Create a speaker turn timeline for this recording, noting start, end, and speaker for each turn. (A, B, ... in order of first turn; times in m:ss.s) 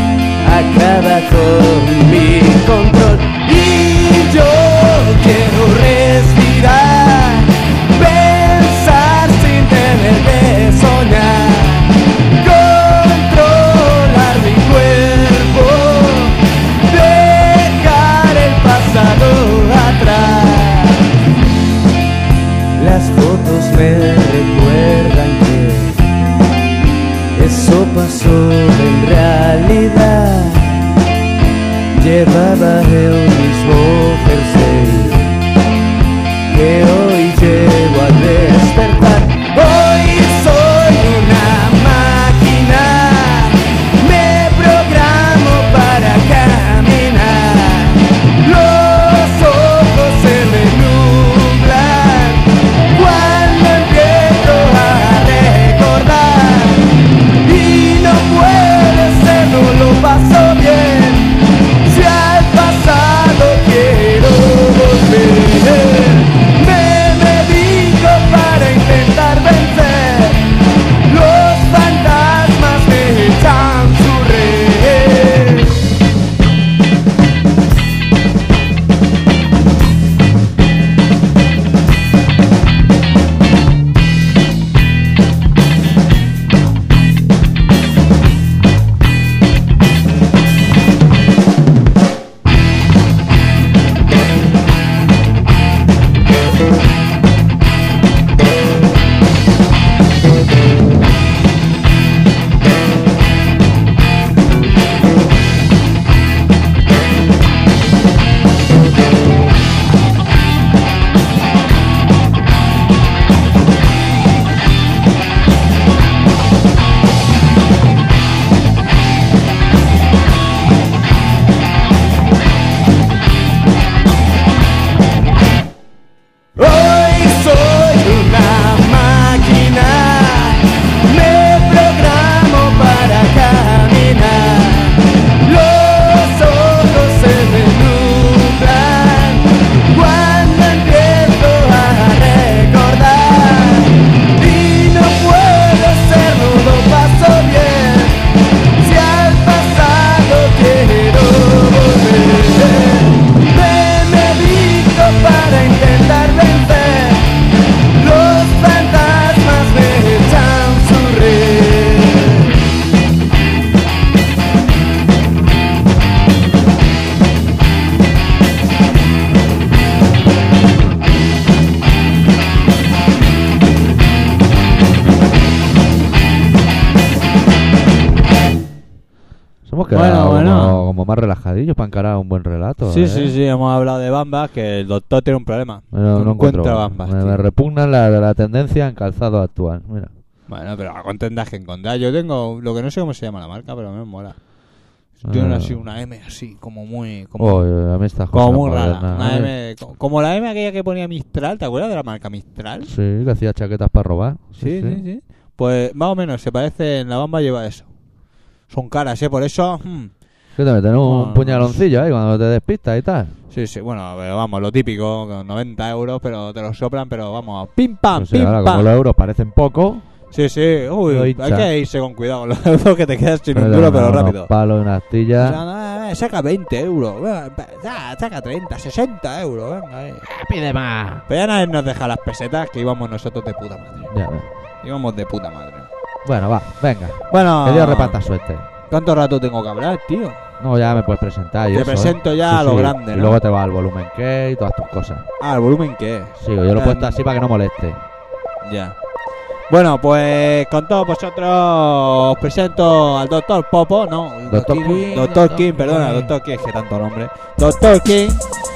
0:00.4-0:21.1 A
0:22.8-0:26.0 A
0:27.3-0:30.9 A
0:32.0-0:35.4 A
0:36.5-1:15.9 A
2:06.6-2:37.4 A
2:37.9-2:42.6 A
2:59.6-3:03.3 B
2:59.9-3:00.8 C
3:02.8-3:07.4 C
3:05.9-3:10.1 B
3:10.5-3:14.4 C
3:15.2-3:17.6 C
3:15.2-3:15.7 B
3:17.4-3:19.5 B
3:18.3-3:22.9 C
3:22.8-3:25.0 B
3:24.6-3:27.9 C
3:28.7-3:30.1 C
3:30.6-3:33.3 B
3:31.0-3:31.8 C
3:33.5-3:38.9 C
3:38.1-3:40.0 B
3:40.3-3:44.5 C
3:41.1-3:41.7 B
3:43.5-3:45.6 B
3:45.4-3:50.2 C
3:50.2-3:51.2 B
3:51.3-3:54.1 C
3:54.1-3:54.5 B
3:54.8-3:55.9 C
3:56.2-3:58.6 B
3:57.3-3:58.2 C
3:58.9-4:00.4 C
4:00.6-4:05.2 B
4:01.7-4:03.4 C
4:05.4-4:07.2 C
4:06.4-4:08.0 B
4:08.6-4:09.0 C
4:09.7-4:18.4 C
4:14.5-4:16.3 B